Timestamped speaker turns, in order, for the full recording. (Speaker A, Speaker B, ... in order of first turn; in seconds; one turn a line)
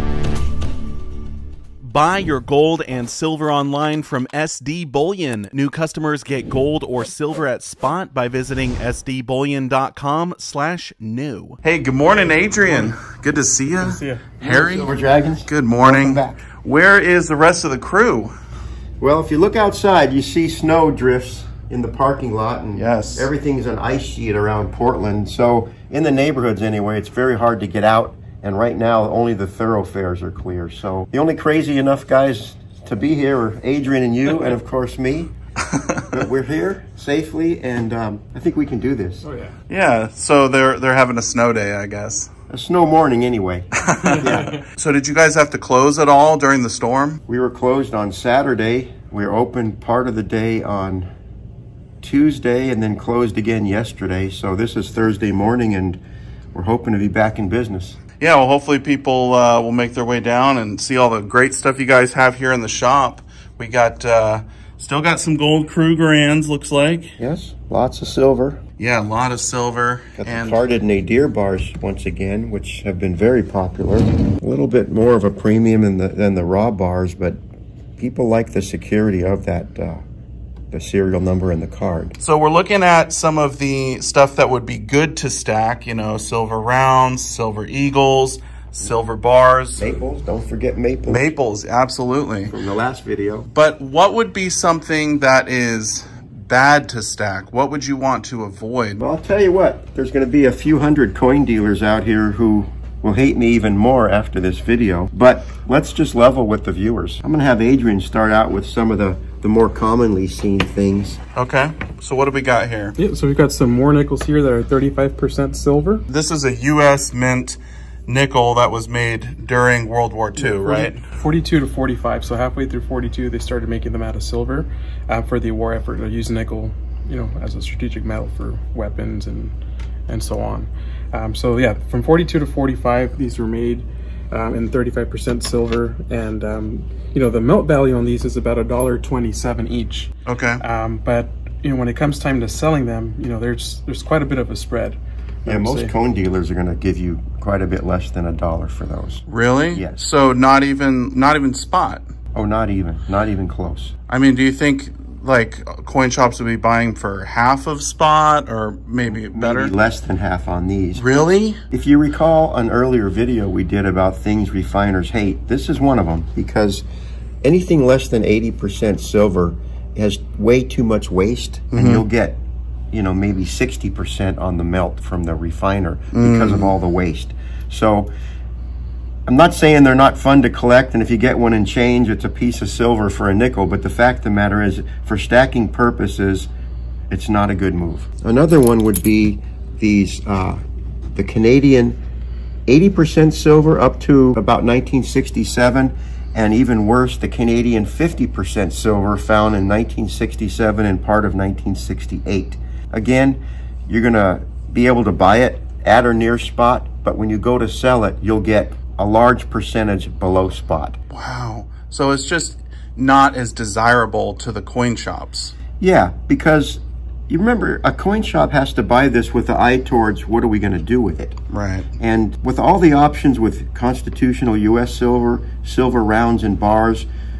Speaker A: 1.9-11.5
Speaker B: 1.9-5.4
Speaker B: 6.8-18.3
Speaker C: 13.8-14.3
Speaker D: 14.4-16.4
Speaker D: 19.0-35.3
Speaker B: 22.8-23.3
Speaker B: 35.7-36.1
Speaker D: 36.1-39.2
Speaker C: 39.2-39.5
Speaker B: 39.7-42.3
Speaker D: 42.5-43.7
Speaker B: 43.8-47.2
Speaker C: 44.0-44.6
Speaker D: 44.2-44.5
Speaker D: 47.3-51.1
Speaker D: 52.0-56.0
Speaker D: 56.5-58.0
Speaker B: 58.2-67.1
Speaker D: 67.2-68.6
Speaker B: 68.8-70.6
Speaker D: 70.2-77.4
Speaker D: 78.0-80.0
Speaker D: 80.7-82.2
Speaker B: 82.2-89.9
Speaker D: 89.8-91.2
Speaker B: 91.0-92.5
Speaker D: 92.5-93.5
Speaker B: 93.5-99.0
Speaker D: 99.0-111.2
Speaker B: 111.3-113.0
Speaker C: 113.0-116.0
Speaker B: 116.1-121.0
Speaker C: 120.4-129.5
Speaker C: 130.1-145.9
Speaker B: 140.2-140.6
Speaker D: 145.4-150.0
Speaker B: 149.3-152.0
Speaker D: 152.3-153.9
Speaker B: 154.1-159.7
Speaker D: 159.2-161.0
Speaker B: 160.9-161.6
Speaker D: 161.7-166.8
Speaker D: 167.4-172.4
Speaker B: 171.7-172.0
Speaker D: 172.9-178.1
Speaker B: 176.1-176.7
Speaker D: 179.2-186.5
Speaker D: 187.1-190.6
Speaker D: 191.1-192.0
Speaker D: 192.7-211.0
Speaker B: 211.1-215.5
Speaker D: 215.8-221.3
Speaker B: 221.5-221.9
Speaker D: 222.0-227.1